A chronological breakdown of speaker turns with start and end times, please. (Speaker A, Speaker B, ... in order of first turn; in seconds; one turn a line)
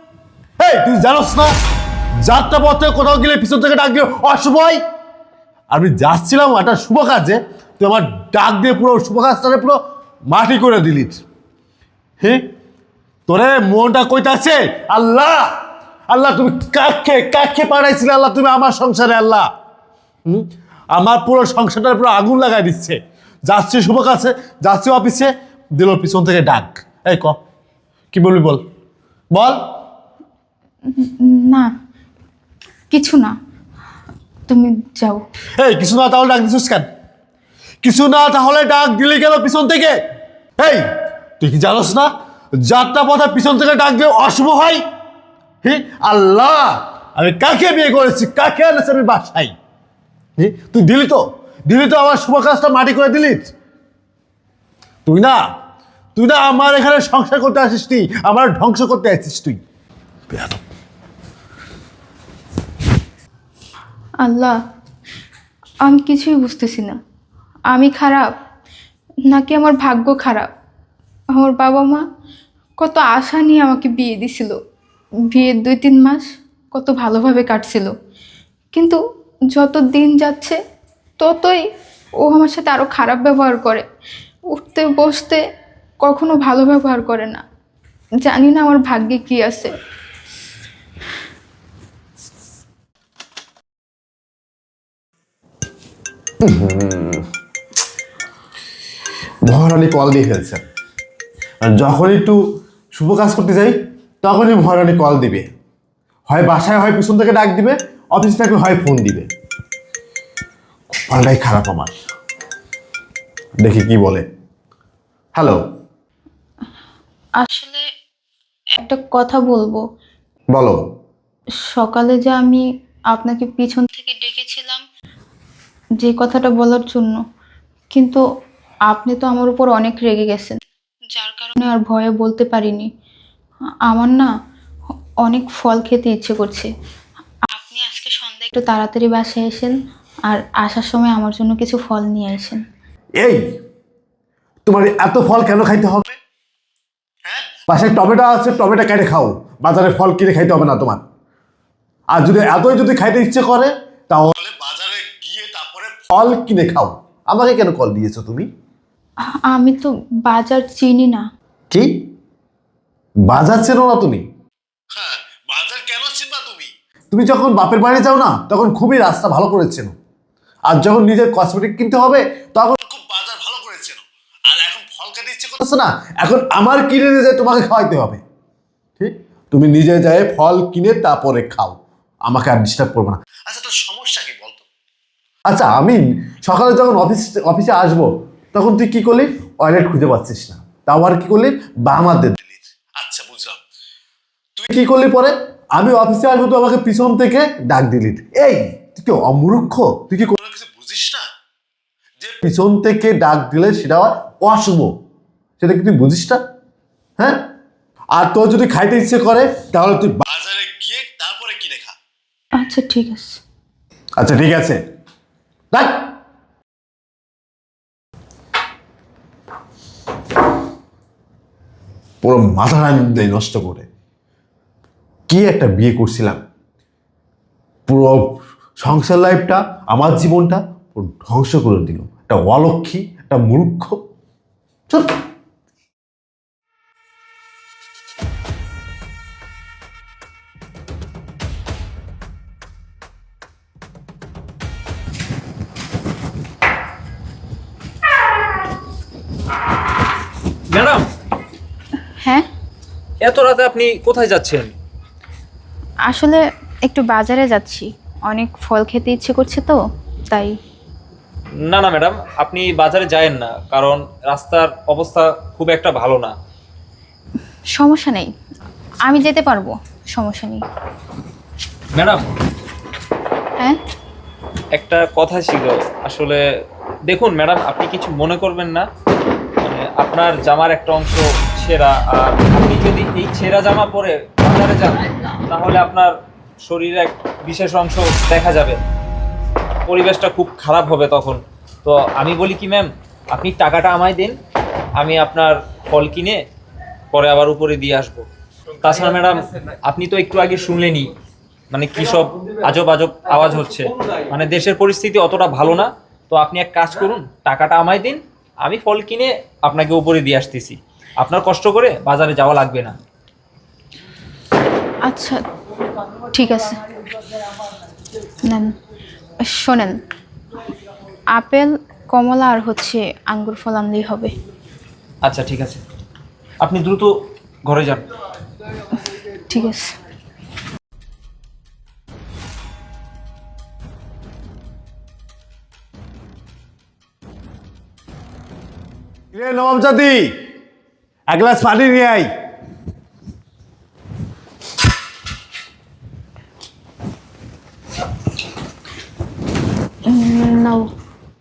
Speaker A: 0.6-1.5
Speaker A: 2.2-4.8
Speaker A: 5.7-9.8
Speaker A: 10.3-11.2
Speaker A: 12.2-12.5
Speaker A: 13.3-15.5
Speaker A: 16.1-19.5
Speaker A: 20.3-27.4
Speaker A: 28.1-28.6
Speaker A: 29.3-29.6
Speaker B: 30.9-31.7
Speaker B: 32.9-33.3
Speaker B: 34.5-35.2
Speaker A: 35.6-36.9
Speaker A: 37.8-40.0
Speaker A: 40.6-40.8
Speaker A: 41.4-42.1
Speaker A: 42.6-44.8
Speaker A: 45.6-49.5
Speaker A: 50.4-53.5
Speaker A: 55.1-55.4
Speaker A: 56.2-59.6
Speaker A: 60.3-60.6
Speaker B: 64.2-64.5
Speaker B: 65.8-67.0
Speaker B: 67.7-68.3
Speaker B: 69.3-70.5
Speaker B: 71.3-72.0
Speaker B: 72.8-74.6
Speaker B: 75.3-77.9
Speaker B: 78.7-79.0
Speaker B: 79.5-80.6
Speaker B: 81.2-81.6
Speaker B: 82.2-83.8
Speaker B: 84.5-85.4
Speaker B: 86.0-87.4
Speaker B: 88.2-89.7
Speaker A: 96.4-97.3
Speaker A: 99.5-100.6
Speaker A: 101.6-102.4
Speaker A: 103.0-105.5
Speaker A: 106.3-109.3
Speaker A: 111.0-111.9
Speaker A: 113.6-114.3
Speaker A: 115.3-115.6
Speaker B: 117.4-117.9
Speaker B: 118.8-119.8
Speaker A: 120.5-120.8
Speaker B: 121.7-124.8
Speaker B: 126.0-127.2
Speaker B: 127.9-128.2
Speaker B: 128.9-130.6
Speaker B: 131.1-132.9
Speaker B: 133.9-134.3
Speaker B: 135.2-136.7
Speaker B: 137.5-139.8
Speaker B: 140.3-142.6
Speaker A: 144.7-146.2
Speaker A: 147.2-151.0
Speaker A: 152.1-158.5
Speaker B: 159.5-161.2
Speaker A: 161.7-162.0
Speaker A: 163.3-164.2
Speaker A: 164.9-169.9
Speaker A: 170.7-178.2
Speaker A: 179.0-184.6
Speaker A: 185.5-193.6
Speaker A: 194.6-201.2
Speaker A: 202.2-204.9
Speaker A: 205.6-206.4
Speaker A: 207.2-207.4
Speaker A: 208.2-211.9
Speaker B: 212.6-213.4
Speaker A: 214.2-214.8
Speaker A: 215.7-216.1
Speaker A: 222.2-223.9
Speaker A: 225.3-226.4
Speaker A: 227.9-234.0
Speaker A: 234.9-235.2
Speaker C: 250.7-251.1
Speaker B: 252.2-252.5
Speaker C: 253.2-254.7
Speaker B: 256.1-260.6
Speaker C: 261.6-266.3
Speaker B: 267.8-268.3
Speaker B: 269.1-270.6
Speaker C: 271.9-272.3
Speaker C: 274.7-276.4
Speaker C: 277.1-278.9
Speaker C: 279.6-288.8
Speaker C: 289.9-294.4
Speaker C: 295.0-296.4
Speaker C: 297.1-298.3
Speaker C: 298.8-301.1
Speaker C: 301.7-313.0
Speaker B: 315.1-315.4
Speaker B: 316.3-316.8
Speaker B: 318.4-318.7
Speaker B: 319.4-319.9
Speaker B: 321.3-324.3
Speaker C: 325.2-325.8
Speaker C: 326.6-327.1
Speaker C: 327.7-328.1
Speaker B: 329.5-329.9
Speaker A: 339.3-340.4
Speaker A: 341.3-342.3
Speaker B: 350.1-350.9